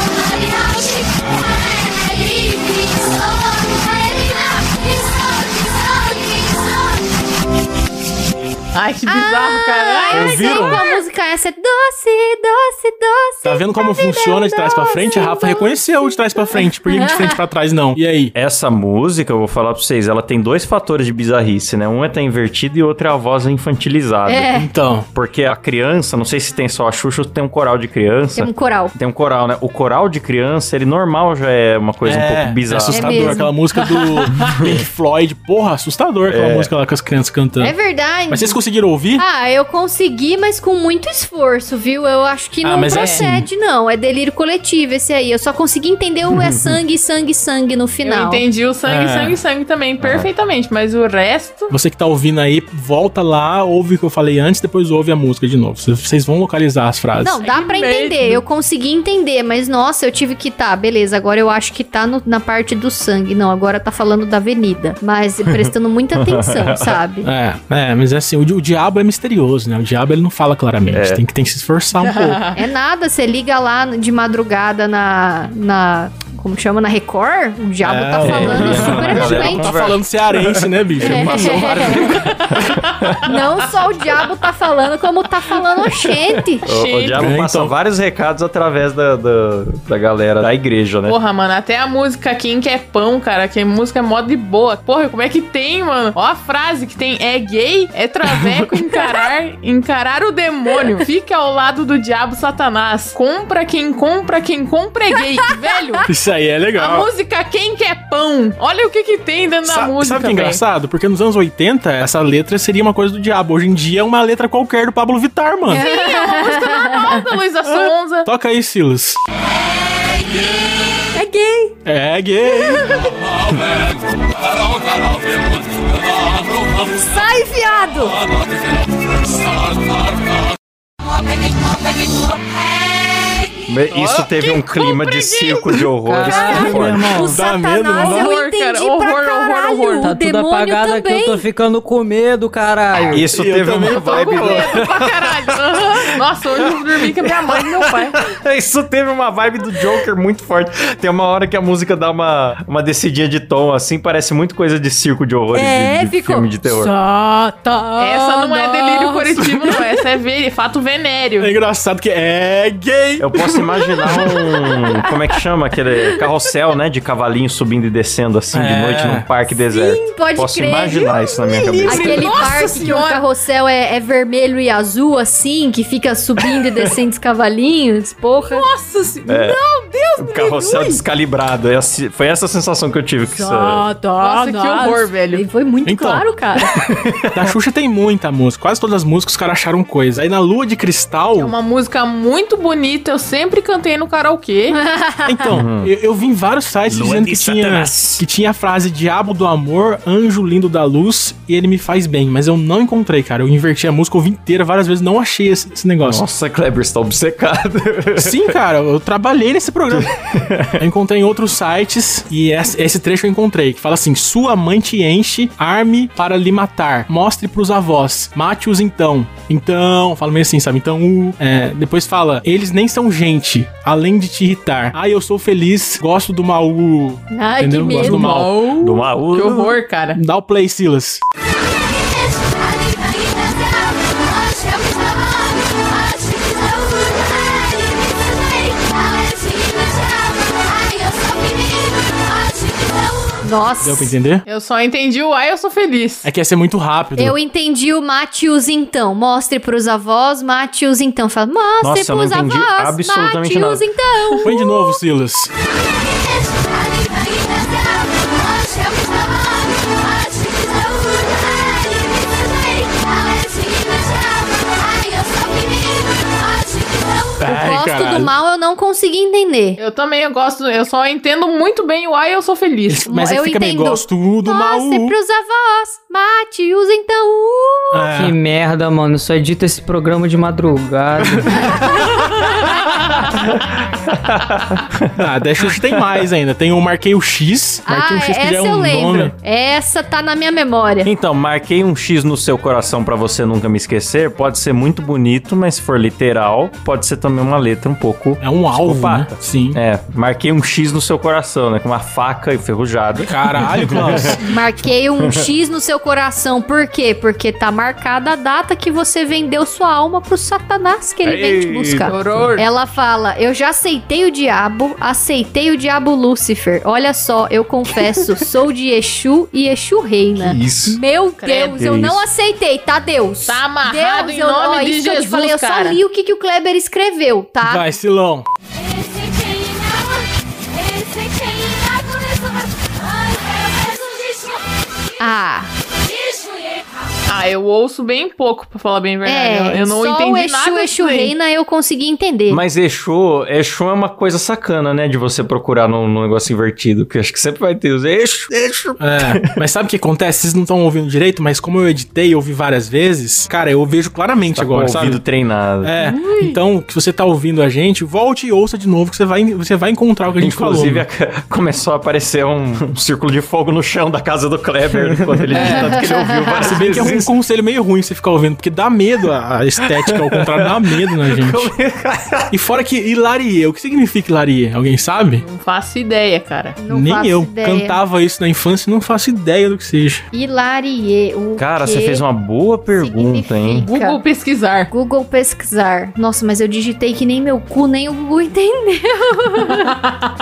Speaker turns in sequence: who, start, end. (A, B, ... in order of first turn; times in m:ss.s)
0:08.7-0:10.8 A
0:09.1-0:17.4 B
0:10.1-0:10.9 C
0:13.4-0:18.3 C
0:18.4-0:24.5 D
0:24.3-0:24.7 B
0:24.5-0:25.1 C
0:25.1-0:33.4 D
0:28.4-0:28.9 B
0:32.0-0:37.8 C
0:32.9-0:33.5 B
0:33.8-0:34.5 A
0:34.4-0:34.8 D
0:36.3-0:36.7 D
0:37.6-0:38.6 B
0:38.3-0:39.2 C
0:39.2-0:48.4 B
0:42.6-0:43.5 C
0:42.9-0:43.2 A
0:46.3-0:46.8 D
0:48.0-0:51.7 A
0:48.9-0:49.4 C
0:50.0-0:50.3 D
0:51.7-0:57.4 C
0:57.2-1:07.3 B
0:57.4-0:58.4 A
1:05.5-1:07.0 D
1:07.2-1:12.4 C
1:10.9-1:11.2 D
1:12.0-1:12.6 A
1:12.6-1:19.8 B
1:17.8-1:22.3 C
1:18.2-1:23.4 D
1:21.0-1:22.0 B
1:23.2-1:26.6 B
1:25.8-1:31.2 D
1:26.7-1:27.4 A
1:27.1-1:27.7 C
1:31.0-1:46.0 A
1:46.1-1:47.1 C
1:46.8-1:50.6 A
1:49.6-1:55.9 C
1:55.7-1:57.3 B
1:55.7-1:58.3 A
1:57.9-1:59.2 C
2:01.1-2:01.8 B
2:01.8-2:03.1 C
2:02.5-2:03.1 B
2:07.0-2:08.2 B
2:13.7-2:17.2 D
2:13.9-2:14.3 C
2:14.1-2:16.5 A
2:16.1-2:17.4 E
2:16.3-2:21.4 B
2:16.5-2:18.4 C
2:17.9-2:20.1 A
2:20.0-2:23.3 E
2:23.1-2:26.0 D
2:23.1-2:24.8 C
2:23.8-2:28.2 A
2:26.7-2:37.0 D
2:35.6-2:39.2 B
2:38.0-2:41.5 A
2:39.4-2:39.8 C
2:41.4-2:44.5 C
2:43.2-2:52.6 D
2:48.5-2:49.3 C
2:49.7-2:58.7 B
2:51.5-2:52.6 C
2:52.4-2:53.2 A
2:58.6-2:59.3 A
2:59.3-2:59.6 D
3:00.2-3:03.9 D
3:03.4-3:06.7 B
3:04.2-3:05.4 A
3:05.8-3:06.3 C
3:06.8-3:07.5 D
3:07.3-3:11.5 C
3:11.4-3:14.8 A
3:14.7-3:15.5 B
3:15.2-3:26.2 C
3:15.5-3:15.9 D
3:16.9-3:18.2 D
3:26.0-3:28.5 D
3:28.2-3:30.2 C
3:29.9-3:30.8 D
3:30.8-3:48.7 C
3:47.3-3:48.3 B
3:47.9-3:50.2 A
3:48.8-3:49.8 D
3:50.1-3:51.2 C
4:03.4-4:04.2 B
4:03.8-4:04.4 C
4:04.5-4:06.3 A
4:06.2-4:07.4 C
4:07.2-4:15.0 B
4:11.8-4:13.8 D
4:14.4-4:15.5 C
4:27.4-4:28.4 C
4:27.4-4:29.8 B
4:29.8-4:33.1 A
4:32.9-4:35.2 C
4:33.1-4:38.1 B
4:37.9-4:38.4 C
4:38.1-4:41.8 E
4:43.2-4:46.0 D
4:45.2-4:49.3 C
4:47.9-4:51.1 B
4:51.0-5:04.4 D
4:58.4-4:59.8 C
5:03.2-5:04.4 C
5:04.4-5:27.9 B
5:11.2-5:12.5 D
5:12.0-5:12.7 A
5:20.4-5:21.0 D
5:21.4-5:21.9 A
5:21.8-5:22.2 D
5:23.5-5:26.0 A
5:27.6-5:28.5 C
5:35.2-5:35.7 B
5:37.3-5:41.3 A
5:39.3-5:42.6 B
5:42.5-5:49.5 D
5:49.0-5:55.2 C
5:54.5-5:55.9 D
5:55.8-6:01.1 C
5:56.0-5:56.6 B
6:00.4-6:07.3 D
6:04.9-6:06.0 C
6:05.5-6:06.9 B
6:05.6-6:05.8 A
6:06.5-6:11.7 C
6:10.0-6:12.5 D
6:12.5-6:15.4 C
6:15.4-6:16.8 A
6:16.8-6:18.0 B
6:16.9-6:20.2 C
6:20.3-6:22.2 B
6:21.6-6:23.9 D
6:22.9-6:24.2 B
6:23.8-6:24.9 A
6:24.9-6:30.0 B